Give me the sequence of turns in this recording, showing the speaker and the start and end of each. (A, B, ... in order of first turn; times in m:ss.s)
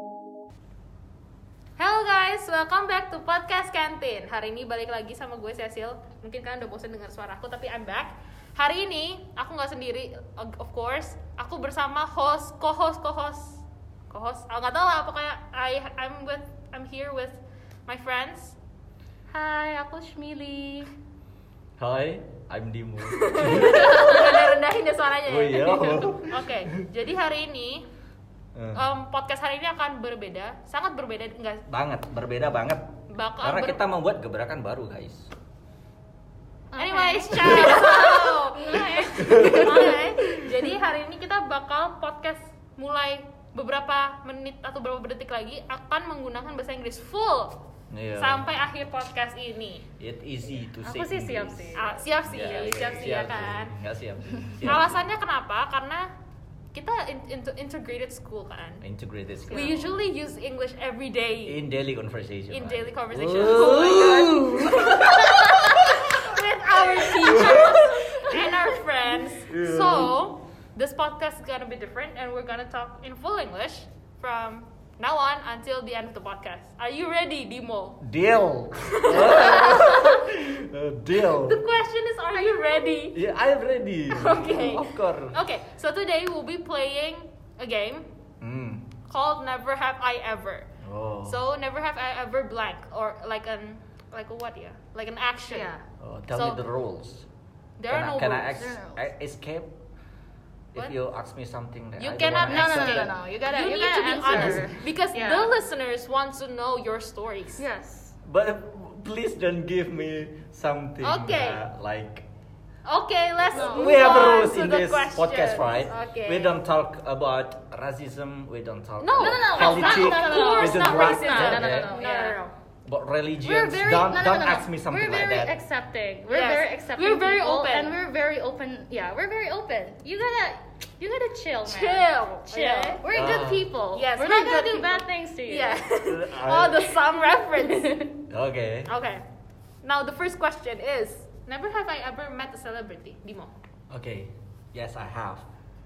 0:01.8-0:18.6 A
0:19.3-0:20.9 B
0:21.8-0:24.3 C
0:23.0-0:27.8 A
0:23.5-0:24.5 B
0:25.2-0:26.8 C
0:28.5-0:28.8 C
0:28.7-0:31.6 A
0:31.7-0:35.3 C
0:33.1-0:33.8 A
0:36.7-0:40.7 B
0:36.8-0:47.6 A
0:37.4-0:38.0 C
0:39.2-0:40.0 C
0:47.9-0:48.5 C
0:48.2-0:49.9 A
0:50.0-0:55.0 C
0:50.8-0:53.1 B
0:51.7-0:53.8 A
0:54.6-0:56.1 A
0:56.7-0:58.8 A
0:58.8-1:00.0 C
0:59.5-1:01.6 A
1:01.4-1:08.5 C
1:02.5-1:18.0 A
1:05.0-1:06.0 B
1:06.8-1:08.7 B
1:09.4-1:10.1 C
1:18.0-1:21.6 C
1:18.7-1:20.2 A
1:21.2-1:23.2 A
1:23.1-1:25.4 C
1:24.1-1:28.1 A
1:28.4-1:28.9 C
1:29.0-1:30.7 A
1:30.8-1:31.4 C
1:31.2-1:35.7 A
1:35.5-1:35.8 B
1:36.0-1:37.3 C
1:36.3-1:36.6 A
1:37.8-1:38.6 A
1:37.9-1:39.8 C
1:38.5-1:39.1 B
1:40.7-1:43.1 C
1:42.0-1:47.6 A
1:42.4-1:45.6 B
1:44.3-1:44.7 C
1:47.6-1:48.2 B
1:48.2-1:52.3 C
1:51.0-1:51.6 A
1:52.8-1:56.6 A
1:53.5-1:54.0 B
1:53.5-2:02.0 C
1:59.0-2:02.5 A
1:59.2-2:02.4 B
2:02.8-2:05.5 C
2:03.4-2:15.9 B
2:06.3-2:08.0 A
2:11.6-2:13.0 A
2:13.1-2:13.7 C
2:13.9-2:18.1 A
2:16.0-2:16.9 C
2:17.6-2:18.2 B
2:18.3-2:18.9 C
2:18.9-2:19.2 A
2:19.8-2:23.5 A
2:23.9-2:25.5 C